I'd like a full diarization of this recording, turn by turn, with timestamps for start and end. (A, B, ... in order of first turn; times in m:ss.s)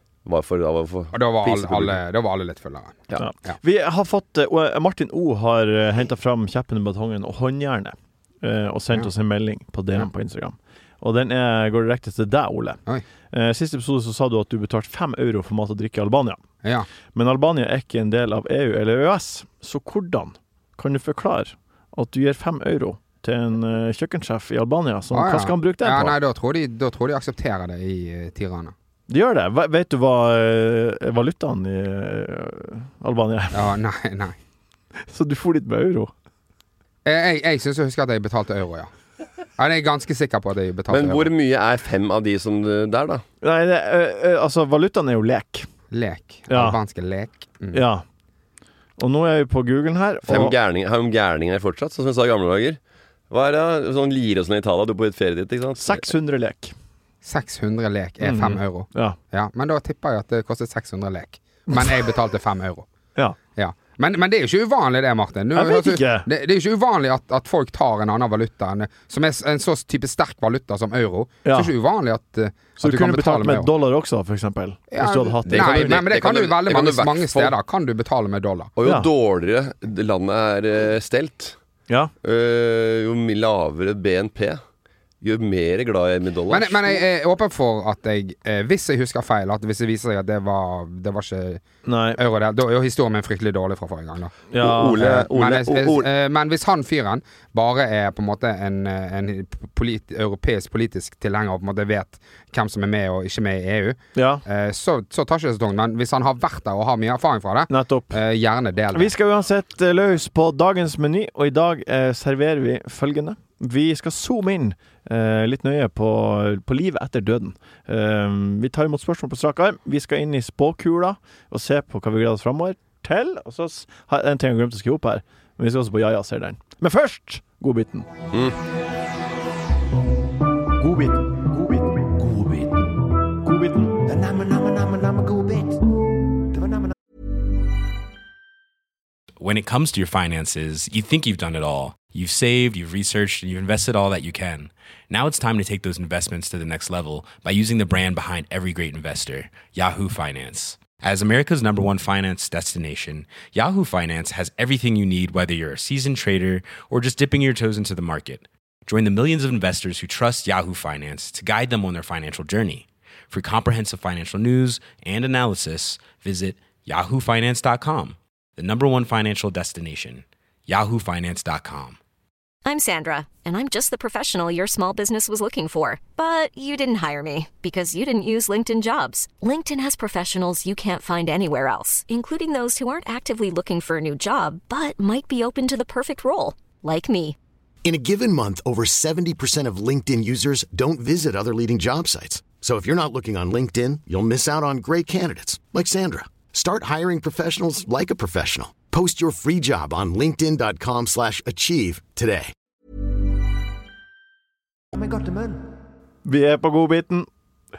0:00.2-0:02.0 A
0:01.1-0:03.6 B
0:03.2-0:12.8 C
0:13.3-0:16.4 C
0:16.6-0:16.9 B
0:17.1-0:26.2 C
0:25.1-0:28.7 B
0:29.1-0:33.7 C
0:33.5-0:34.4 B
0:35.1-0:36.1 C
0:37.0-0:38.9 B
0:39.6-0:41.3 B
0:40.9-0:43.2 A
0:43.4-0:45.7 C
0:45.9-0:47.8 B
0:46.5-0:46.8 C
0:47.7-0:48.0 C
0:49.0-0:50.5 C
0:50.2-0:52.8 A
0:53.3-0:56.1 A
0:55.8-0:56.7 C
0:57.2-1:02.9 B
0:58.2-0:59.2 C
1:03.6-1:13.7 B
1:05.5-1:06.3 C
1:11.4-1:11.7 C
1:12.8-1:16.0 C
1:14.9-1:18.7 B
1:15.5-1:17.5 A
1:18.8-1:21.6 A
1:18.8-1:19.1 C
1:22.2-1:24.6 A
1:25.2-1:27.0 A
1:26.5-1:31.6 B
1:31.8-1:32.2 C
1:32.1-1:34.4 B
1:34.5-1:35.1 C
1:34.6-1:36.1 A
1:34.9-1:49.1 B
1:44.1-1:44.4 C
1:47.7-1:48.2 C
1:48.9-2:08.1 C
2:08.3-2:08.6 A
2:10.8-2:12.0 C
2:12.2-2:12.7 A
2:13.4-2:14.1 C
2:14.1-2:15.7 A
2:19.4-2:52.0 D
2:52.6-3:07.4 E
3:07.8-3:22.5 F
3:25.0-3:25.6 A
3:26.2-3:27.3 C